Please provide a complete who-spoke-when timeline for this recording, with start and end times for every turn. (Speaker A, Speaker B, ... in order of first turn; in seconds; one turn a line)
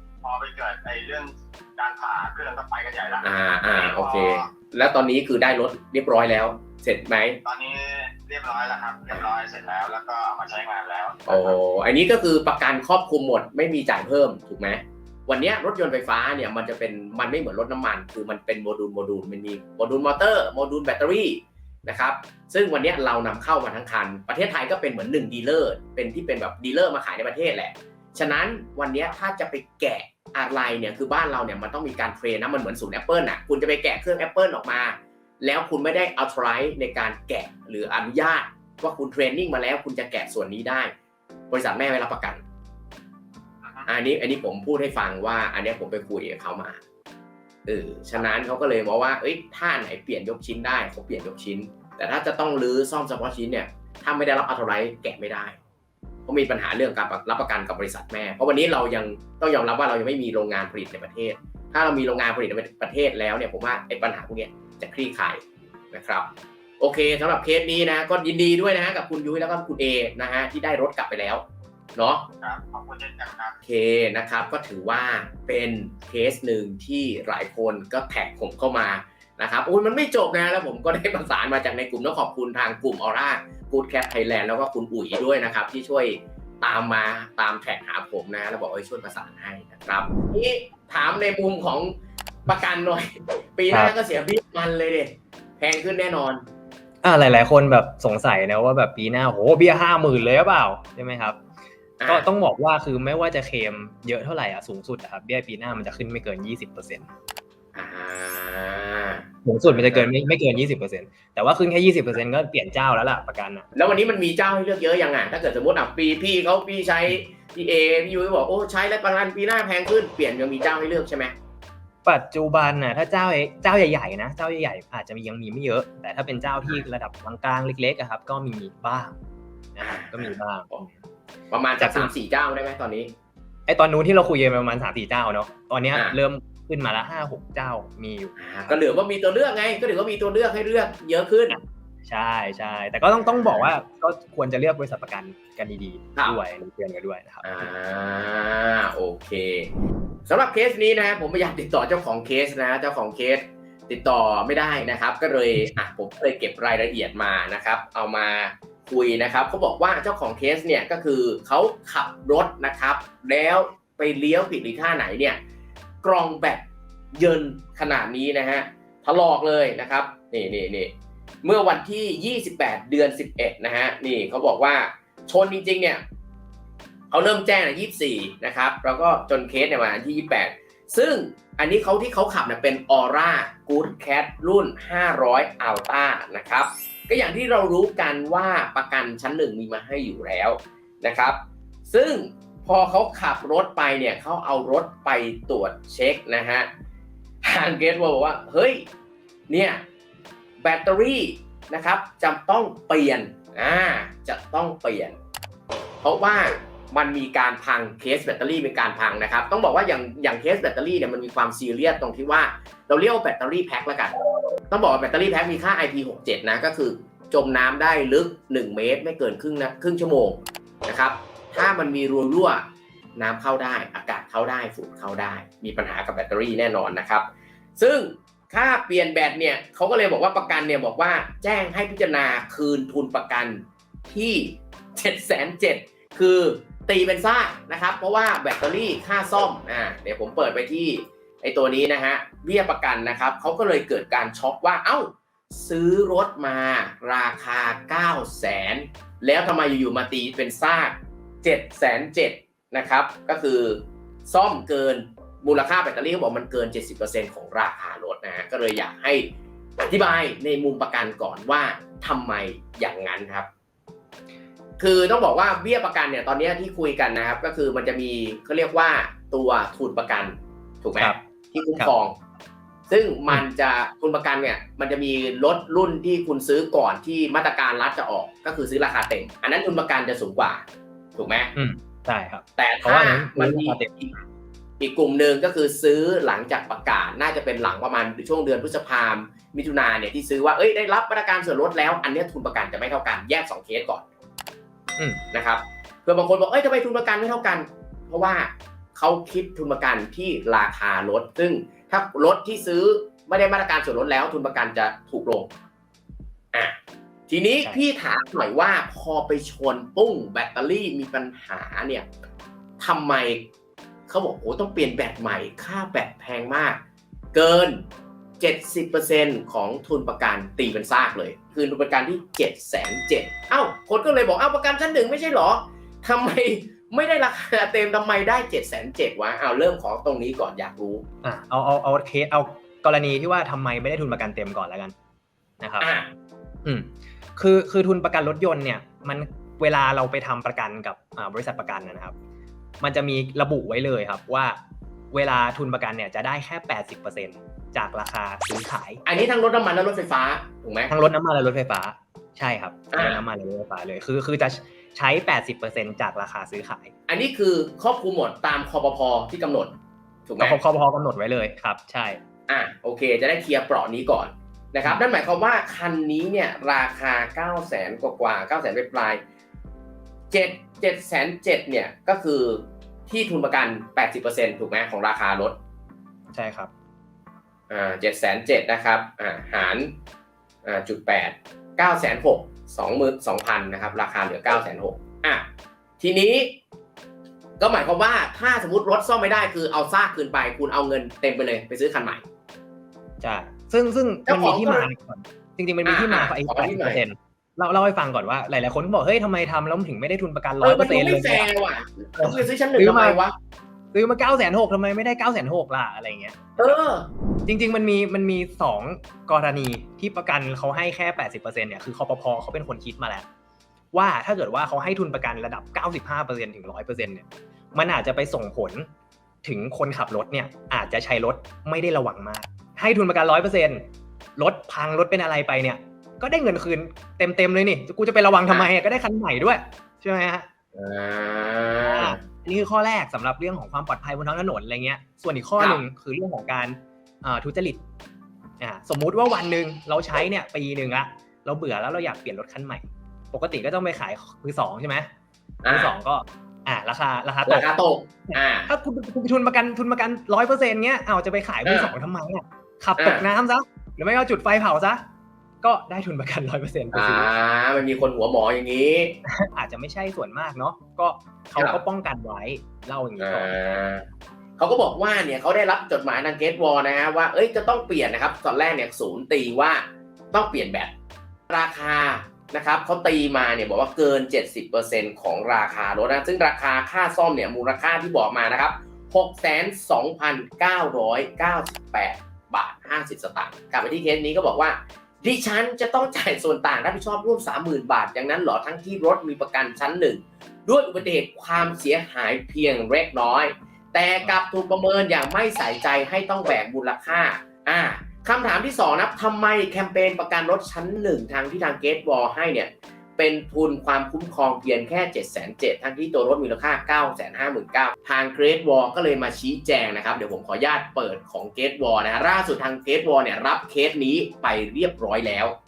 Speaker A: 0.2-4.5
Speaker B: 3.2-7.4
Speaker A: 7.4-11.6
Speaker B: 11.3-40.9
Speaker B: 41.5-42.4
Speaker A: 43.6-43.9
Speaker B: 43.9-46.8
Speaker B: 47.6-55.6
Speaker B: 56.2-66.3
Speaker B: 66.8-71.4
Speaker B: 72.0-72.3
Speaker A: 72.4-73.6
Speaker B: 73.6-91.9
Speaker B: 92.5-96.4
Speaker C: 93.7-93.9
Speaker C: 97.0-101.4
Speaker B: 102.0-102.3
Speaker C: 102.0-107.1
Speaker B: 107.7-110.1
Speaker C: 109.4-113.7
Speaker B: 113.7-121.3
Speaker C: 122.0-129.1
Speaker C: 129.7-131.0
Speaker B: 129.8-130.3
Speaker B: 131.5-133.1
Speaker C: 131.8-132.1
Speaker C: 133.7-138.3
Speaker B: 135.9-136.2
Speaker B: 138.4-141.6
Speaker C: 141.5-147.7
Speaker B: 143.2-143.7
Speaker B: 147.4-149.7
Speaker B: 150.3-165.4
Speaker B: 166.0-170.9
Speaker B: 171.4-176.0
Speaker B: 177.1-196.7
Speaker B: 197.4-198.8
Speaker B: 199.5-199.8
Speaker B: 200.6-205.2
Speaker B: 206.0-214.1
Speaker B: 214.7-222.6
Speaker B: 223.2-259.3
Speaker B: 259.8-263.5
Speaker B: 264.8-272.1
Speaker B: 272.9-280.6
Speaker B: 281.1-281.5
Speaker C: 281.6-283.9
Speaker B: 282.6-284.2
Speaker B: 284.8-294.0
Speaker B: 295.3-305.5
Speaker B: 307.3-312.1
Speaker B: 312.8-313.4
Speaker B: 314.1-316.8
Speaker B: 317.3-317.8
Speaker B: 318.4-331.0
Speaker C: 331.2-334.9
Speaker C: 335.6-335.9
Speaker B: 335.8-336.1
Speaker C: 336.6-342.1
Speaker C: 342.8-344.6
Speaker C: 345.1-349.0
Speaker B: 349.0-350.9
Speaker C: 350.9-356.9
Speaker B: 352.9-353.2
Speaker B: 357.1-359.7
Speaker B: 360.3-360.6
Speaker C: 360.4-362.2
Speaker B: 362.5-369.2
Speaker B: 370.3-375.6
Speaker C: 376.3-376.7
Speaker B: 377.7-379.9
Speaker B: 380.6-385.4
Speaker B: 386.0-386.6
Speaker B: 387.6-392.2
Speaker C: 393.2-401.5
Speaker B: 394.2-394.9
Speaker B: 395.8-397.0
Speaker B: 400.6-403.3
Speaker C: 402.2-403.2
Speaker C: 403.9-406.8
Speaker B: 406.6-407.1
Speaker C: 407.5-413.2
Speaker C: 413.9-418.9
Speaker C: 419.4-423.9
Speaker C: 424.4-430.5
Speaker B: 430.7-432.2
Speaker C: 431.8-437.8
Speaker C: 438.6-445.1
Speaker B: 445.6-445.9
Speaker C: 445.7-447.7
Speaker B: 447.4-448.7
Speaker C: 448.3-455.0
Speaker B: 451.6-451.9
Speaker B: 453.0-453.2
Speaker C: 455.6-457.3
Speaker B: 456.9-459.2
Speaker C: 459.3-463.6
Speaker B: 463.2-464.0
Speaker B: 464.6-470.9
Speaker B: 471.5-515.5